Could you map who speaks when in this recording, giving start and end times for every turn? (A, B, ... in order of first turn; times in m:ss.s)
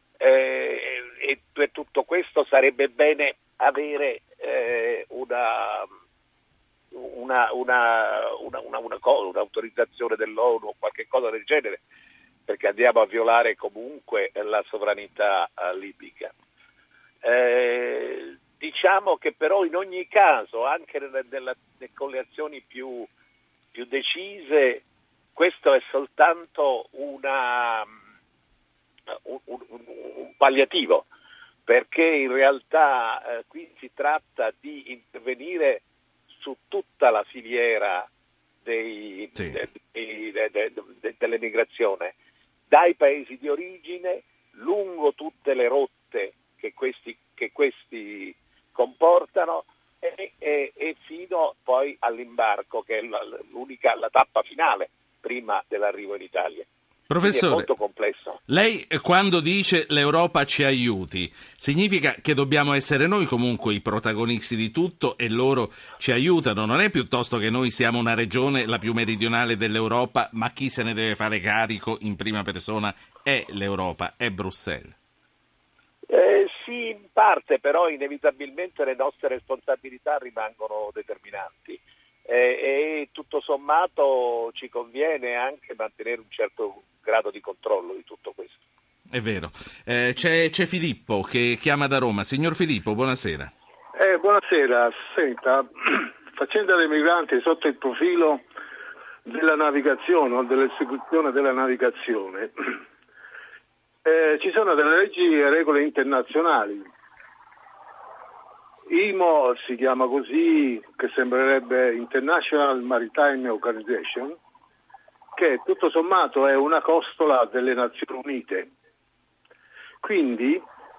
0:00.2-0:05.9 A
0:06.9-0:11.8 A
0:12.5-0:16.3 A
0:17.2-0:23.1 A
0:23.7-0:24.8 A
0:25.3-0:27.9 A
0:29.1-0:31.1 A
0:31.7-0:35.8 A
0:36.4-0:38.1 A
0:38.6-0:42.1 A
0:42.7-0:56.7 A
0:57.1-0:57.7 B
0:57.2-0:58.4 A
0:58.5-1:14.9 B
1:16.1-1:28.6 A
1:29.1-1:33.5 B
1:33.9-1:38.4 C
1:39.2-1:42.5 C
1:44.0-1:46.9 C
1:48.9-1:54.4 C
1:55.3-1:58.7 C
2:00.0-2:00.6 C